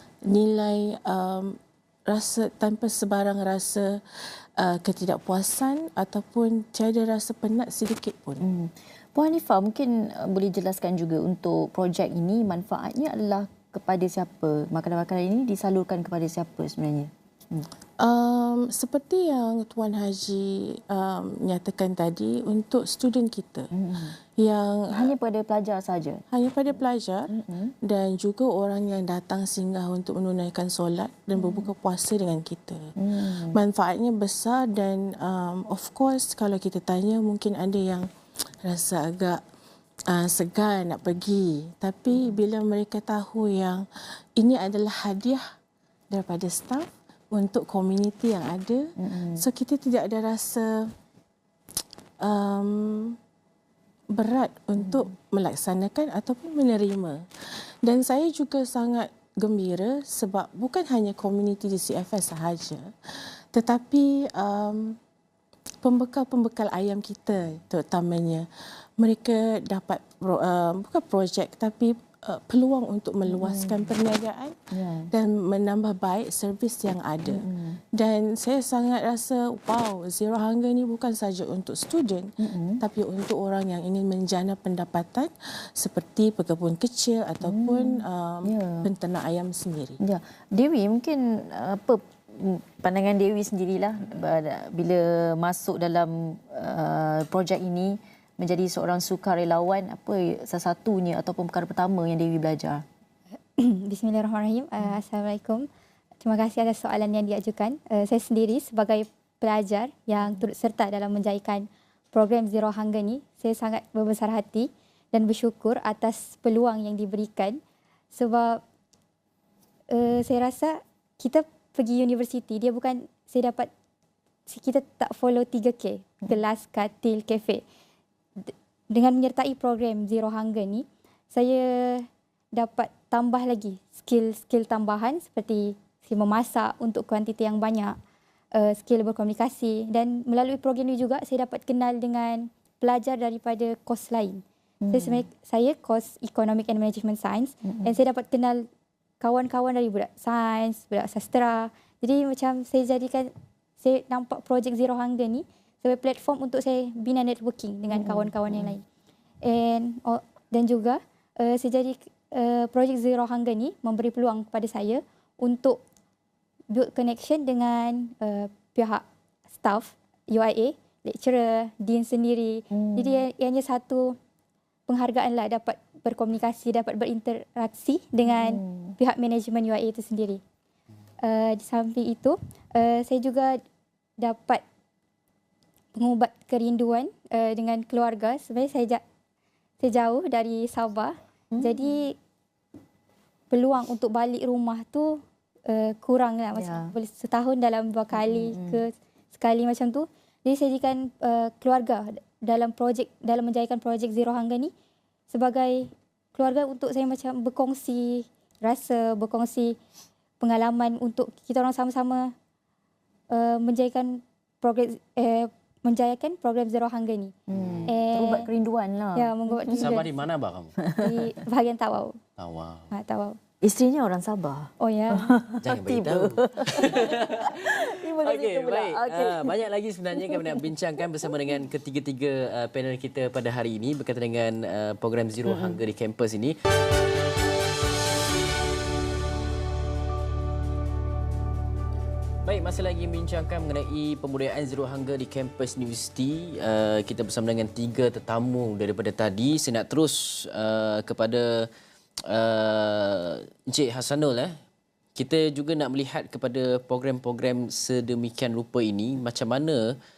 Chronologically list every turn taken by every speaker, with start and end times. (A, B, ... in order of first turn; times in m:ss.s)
0:00.2-0:08.4 A
0:08.4-0:17.7 B
0:18.0-0:23.7 A
0:23.7-0:24.2 B
0:24.4-0:25.1 A
0:24.9-0:26.2 B
0:26.3-0:38.1 A
0:27.3-0:27.7 B
0:31.4-0:31.7 B
0:33.0-0:33.6 B
0:38.6-0:39.4 A
0:40.1-0:43.8 A
0:44.4-0:45.4 A
0:46.1-0:50.9 A
0:49.0-0:49.4 B
0:52.2-0:53.2 A
0:54.1-0:57.2 A
0:57.8-1:05.0 A
1:05.8-1:08.5 A
1:09.0-1:30.0 A
1:13.3-1:13.9 B
1:14.7-1:15.1 B
1:17.3-1:17.8 B
1:22.4-1:22.8 B
1:27.4-1:28.9 B
1:30.0-1:42.8 B
1:43.6-1:45.7 C
1:46.2-1:57.6 C
1:58.1-1:58.6 C
1:59.9-2:03.7 C
2:04.5-2:07.6 C
2:08.4-2:18.0 C
2:18.5-2:28.6 C
2:24.8-2:25.2 B
2:27.6-2:28.0 B
2:29.2-2:38.8 C
2:37.9-2:38.7 B
2:39.4-2:45.8 C
2:46.7-2:49.0 C
2:49.5-2:54.2 C
2:52.7-2:53.2 B
2:54.9-3:00.4 C
2:58.3-2:59.0 B
3:01.2-3:03.6 C
3:04.2-3:04.6 C
3:05.9-3:09.0 C
3:09.8-3:12.2 C
3:11.5-3:11.9 B
3:13.5-3:24.7 C
3:16.5-3:16.9 B
3:18.1-3:18.8 B
3:25.3-3:29.8 C
3:30.4-3:32.3 C
3:33.3-3:37.3 C
3:37.5-3:40.0 B
3:37.5-3:37.9 D
3:37.9-3:38.5 C
3:39.2-3:40.1 C
3:39.8-3:40.8 D
3:40.8-3:41.3 B
3:41.0-3:42.2 C
3:42.4-3:42.9 D
3:42.9-3:43.4 C
3:43.6-3:49.6 B
3:44.8-3:45.3 C
3:45.6-3:56.6 D
3:50.2-3:50.6 B
3:55.4-3:55.8 B
4:02.4-4:11.7 D
4:12.3-4:14.5 D
4:15.2-4:20.0 D